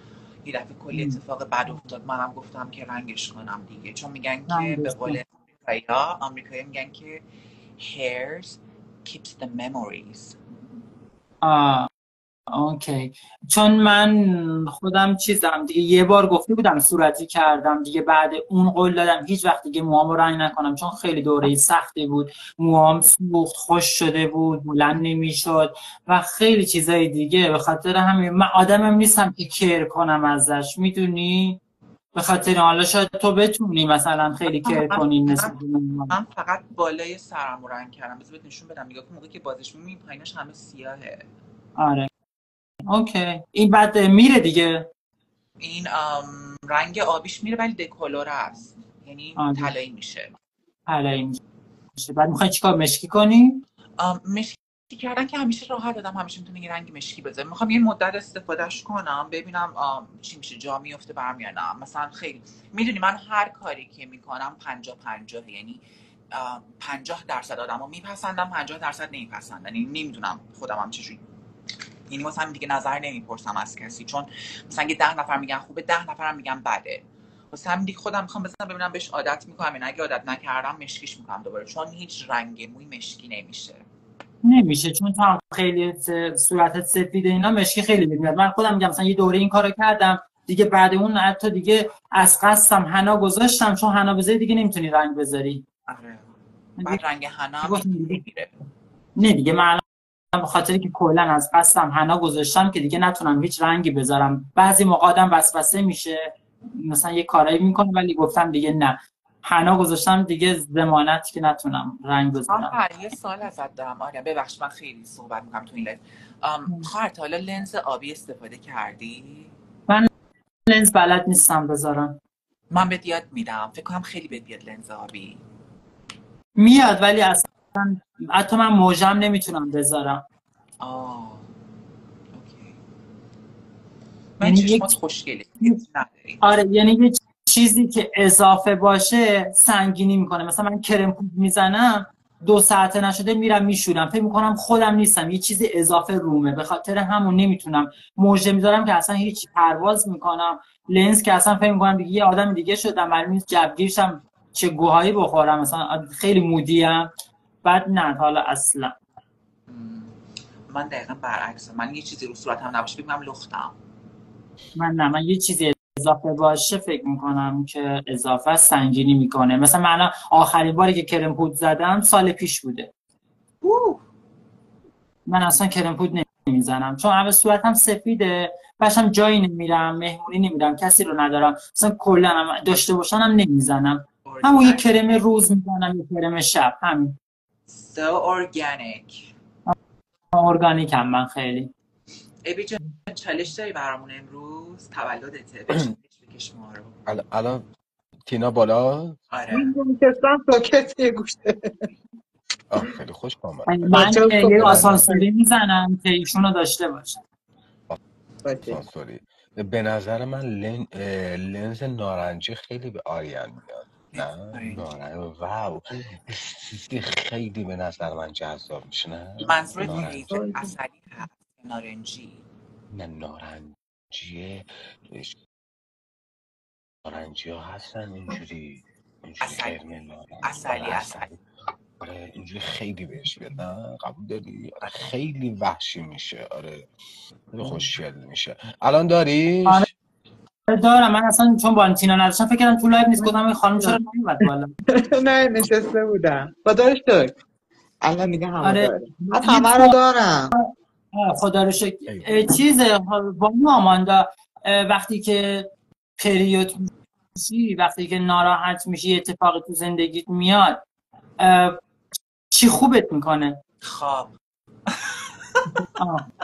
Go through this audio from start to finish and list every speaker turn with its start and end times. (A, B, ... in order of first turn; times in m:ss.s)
0:00.4-0:07.2 A
0:00.9-0:01.2 B
0:04.5-0:05.2 B
0:07.8-0:10.4 A
0:11.4-0:11.9 B
0:12.5-0:31.6 B
0:32.1-0:36.1 B
0:34.5-0:35.5 A
0:36.1-0:41.2 A
0:41.8-0:42.1 B
0:42.9-0:44.9 B
0:45.6-0:50.3 A
0:49.4-0:49.7 B
0:50.9-0:51.4 B
0:52.0-0:53.6 B
0:54.0-1:11.2 A
1:12.1-1:23.8 A
1:24.4-1:35.6 B
1:35.9-1:36.2 A
1:36.8-1:38.6 A
1:37.6-1:38.2 B
1:39.2-1:39.8 B
1:40.3-1:52.8 B
1:52.5-1:59.5 A
2:00.7-2:02.2 B
2:02.7-2:05.4 A
2:06.6-2:10.2 B
2:10.8-2:11.4 A
2:12.3-2:12.8 A
2:14.4-2:16.4 A
2:14.4-2:14.9 B
2:16.4-2:37.1 B
2:37.6-2:38.9 B
2:39.7-2:40.1 A
2:40.7-2:43.7 A
2:44.8-2:52.9 B
2:53.6-2:54.0 A
2:55.3-3:07.2 B
3:04.2-3:04.8 A
3:07.7-3:09.3 A
3:10.3-3:11.7 B
3:12.4-3:16.9 A
3:17.1-3:17.6 C
3:18.3-3:19.2 C
3:19.3-3:19.7 A
3:19.5-3:21.8 D
3:22.7-3:25.1 C
3:23.7-3:27.2 B
3:23.9-3:25.2 D
3:28.4-3:28.8 D
3:28.6-3:40.2 C
3:34.1-3:34.8 A
3:39.4-3:42.4 A
3:40.3-3:40.6 D
3:42.9-3:45.4 C
3:47.0-3:51.4 C
3:49.4-3:49.8 A
3:50.4-3:51.3 A
3:52.0-3:56.9 C
3:57.5-3:59.9 C
4:00.7-4:04.7 B
4:03.2-4:07.3 D
4:08.0-4:10.5 D
4:08.6-4:08.9 B
4:09.4-4:10.0 B
4:10.5-4:20.8 B
4:12.1-4:12.5 C
4:21.4-4:21.8 B
4:22.5-4:23.6 B
4:23.8-4:24.3 A
4:24.9-4:25.7 A
4:26.0-4:26.2 B